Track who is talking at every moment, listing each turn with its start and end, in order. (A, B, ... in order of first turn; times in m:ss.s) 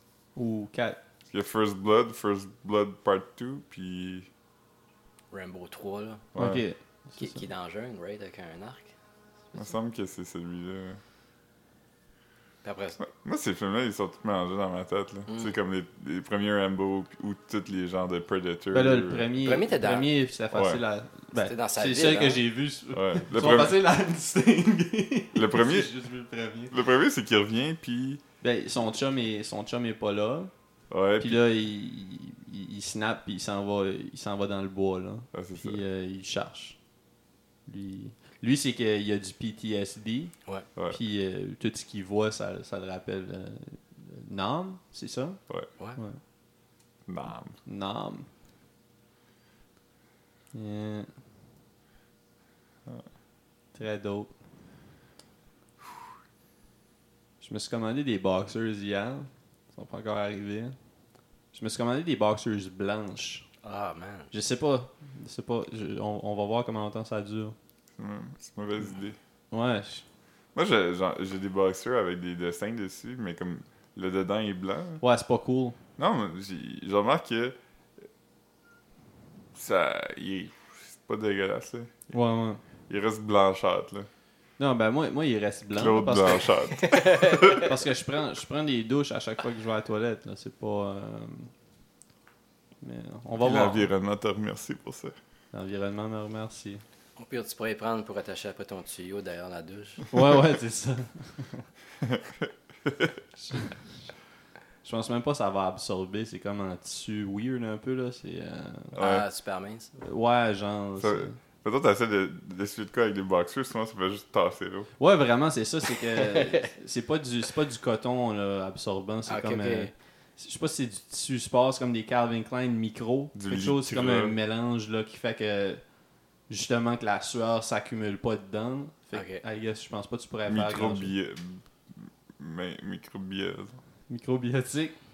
0:00.3-0:01.0 A
0:01.3-0:04.3 B
0:05.3-0:06.3 C
0:06.3-0:06.6 B
0:06.4-0:07.4 A
0:07.2-0:08.9 C
0:09.5-0:11.0 B
0:12.6-0:13.0 C
0:13.0-0:19.3 B
0:15.3-0:15.5 C
0:18.7-0:26.7 A
0:19.4-0:20.1 C
0:20.5-0:20.8 B
0:21.3-0:22.4 C
0:22.9-0:23.8 B
0:25.3-0:25.9 B
0:26.7-0:28.2 B
0:28.4-0:30.5 A
0:30.9-0:31.4 B
0:31.2-0:36.8 A
0:35.3-0:35.8 B
0:37.6-0:40.3 A
0:40.9-0:45.4 A
0:47.1-0:47.6 B
0:47.6-0:48.3 A
0:50.5-0:51.1 A
0:53.7-0:54.3 A
0:57.4-1:00.7 A
1:01.5-1:03.4 A
1:03.6-1:04.3 C
1:04.3-1:07.6 A
1:08.0-1:09.2 B
1:09.5-1:10.0 A
1:10.5-1:15.0 B
1:15.0-1:15.8 A
1:16.0-1:17.6 B
1:19.5-1:22.0 B
1:22.1-1:22.6 A
1:22.9-1:24.1 B
1:24.6-1:26.5 A
1:25.7-1:27.7 B
1:26.8-1:27.7 C
1:27.4-1:31.5 A
1:32.8-1:33.9 A
1:33.4-1:35.2 B
1:35.5-1:36.8 A
1:37.2-1:40.1 C
1:40.1-1:41.7 A
1:42.0-1:43.1 B
1:43.5-1:43.7 A
1:44.8-1:49.0 A
1:48.9-1:49.9 C
1:49.0-1:49.2 B
1:50.0-1:51.4 A
1:51.0-1:54.9 B
1:55.0-2:05.8 A
1:56.0-1:56.7 C
1:59.3-1:59.9 C
2:03.3-2:04.4 B
2:06.5-2:11.1 A
2:09.1-2:09.4 C
2:10.5-2:13.8 B
2:14.1-2:15.0 A